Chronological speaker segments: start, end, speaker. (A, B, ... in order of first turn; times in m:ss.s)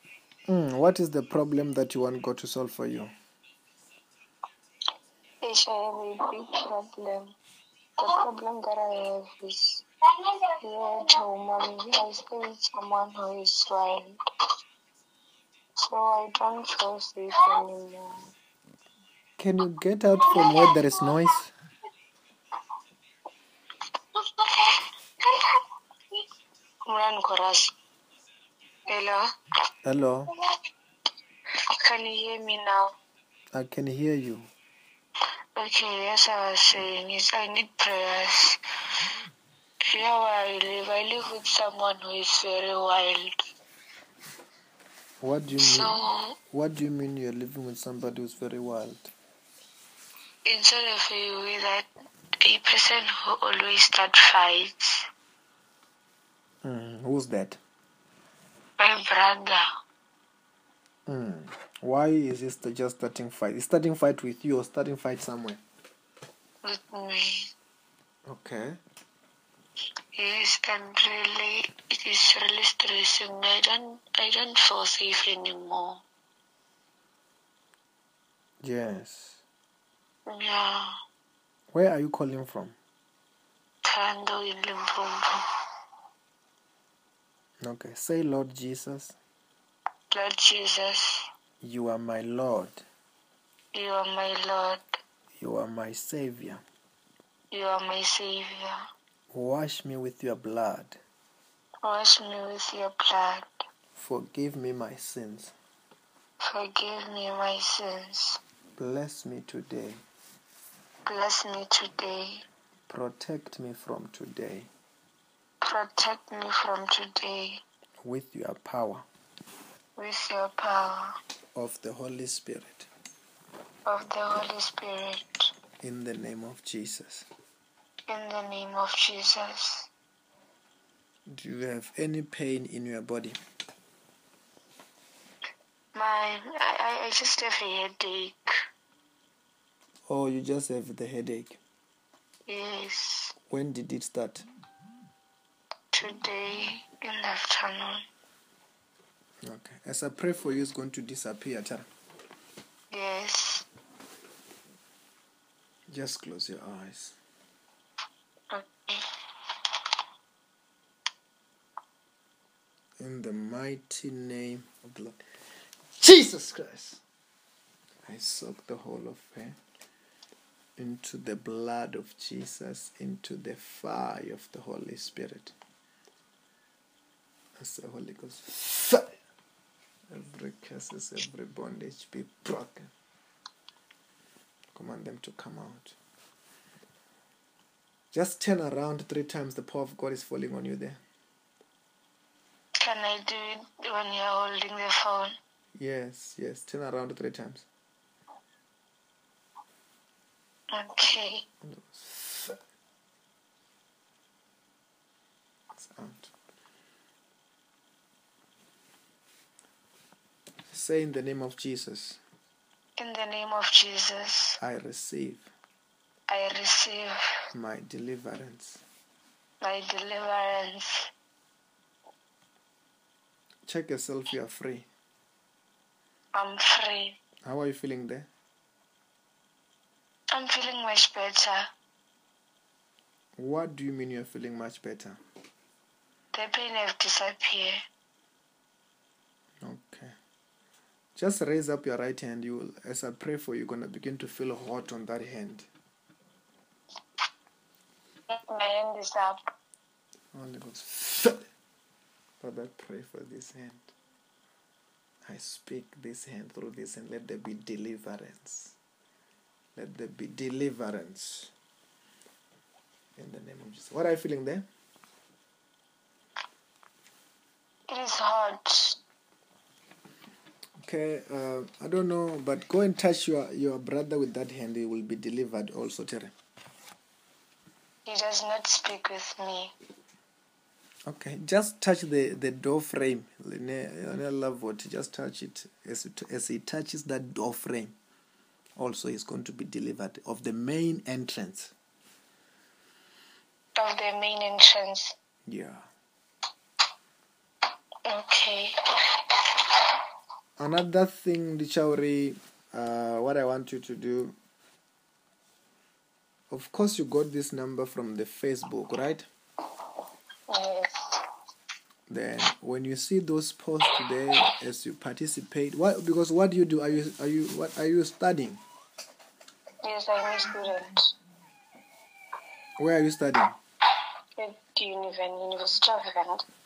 0:00.5-0:03.1 A
0:05.4-0:07.4 B
0:08.0-0:14.2 B
0:15.8-0:18.2 B
0:19.4-0:21.5 A
0:20.3-0:20.6 B
0:24.1-0:25.6 B
0:26.9-0:27.7 B
0:28.9-0:29.3 B
0:29.8-0:30.3 A
0:31.8-0:33.0 B
0:33.5-0:34.5 A
0:35.6-0:38.6 B
0:39.9-0:43.4 B
0:45.2-0:46.0 A
0:45.6-0:46.4 B
0:46.5-0:49.1 A
0:50.5-0:51.9 B
0:52.4-0:55.0 B
0:56.6-0:57.6 A
0:58.8-0:59.6 B
1:01.1-1:05.6 A
1:06.6-1:07.5 B
1:08.3-1:08.8 A
1:10.1-1:16.0 B
1:18.6-1:19.4 A
1:20.3-1:21.0 B
1:21.7-1:22.8 A
1:23.8-1:25.4 B
1:27.6-1:29.2 A
1:30.1-1:31.3 B
1:31.6-1:32.8 A
1:33.7-1:35.0 B
1:35.4-1:36.6 A
1:37.5-1:38.8 B
1:39.3-1:41.0 A
1:41.8-1:43.5 B
1:44.0-1:45.5 A
1:46.4-1:48.4 B
1:48.8-1:50.0 A
1:51.1-1:52.4 B
1:52.9-1:54.7 A
1:55.6-1:57.6 B
1:58.0-1:59.0 A
2:00.0-2:01.1 B
2:01.6-2:02.9 A
2:03.9-2:05.5 B
2:05.8-2:07.3 A
2:08.1-2:09.9 B
2:11.3-2:13.4 A
2:15.9-2:18.5 B
2:20.1-2:21.6 A
2:22.5-2:23.3 B
2:23.5-2:24.4 A
2:25.9-2:28.0 B
2:29.4-2:31.9 A
2:32.9-2:33.7 B
2:35.9-2:37.2 A
2:38.5-2:39.1 B
2:43.0-2:45.2 A
2:46.0-2:47.0 A
2:48.0-2:49.6 A
2:50.8-2:55.5 A
2:57.6-2:59.1 A
3:00.1-3:02.9 A
3:04.7-3:06.0 A
3:08.1-3:11.0 A
3:12.8-3:15.3 B
3:15.7-3:17.7 A
3:20.7-3:21.4 B
3:21.6-3:22.6 A
3:25.7-3:26.3 A
3:30.7-3:32.2 A
3:33.0-3:34.6 B
3:34.6-3:35.5 A
3:36.3-3:37.2 B
3:37.5-3:38.8 A
3:39.6-3:41.1 B
3:43.7-3:44.9 A
3:46.3-3:47.2 B
3:47.4-3:48.3 A
3:50.3-3:51.7 B
3:53.4-3:55.2 A
3:56.3-3:57.8 B
3:59.6-4:00.1 A
4:01.2-4:05.7 A
4:08.3-4:09.4 B
4:10.3-4:11.4 A
4:12.4-4:13.9 A
4:15.2-4:18.8 A
4:19.8-4:21.5 A
4:23.2-4:24.7 A
4:27.9-4:29.0 B
4:30.8-4:36.3 A
4:38.1-4:39.7 B
4:41.1-4:47.9 A
4:48.8-4:51.7 A
4:53.8-4:55.1 B
4:55.5-4:55.9 A
4:58.0-4:59.8 B
5:00.6-5:04.4 A
5:06.5-5:09.3 A
5:10.5-5:11.2 B
5:12.1-5:18.6 A
5:19.8-5:21.1 B
5:22.8-5:23.6 A
5:24.4-5:26.4 B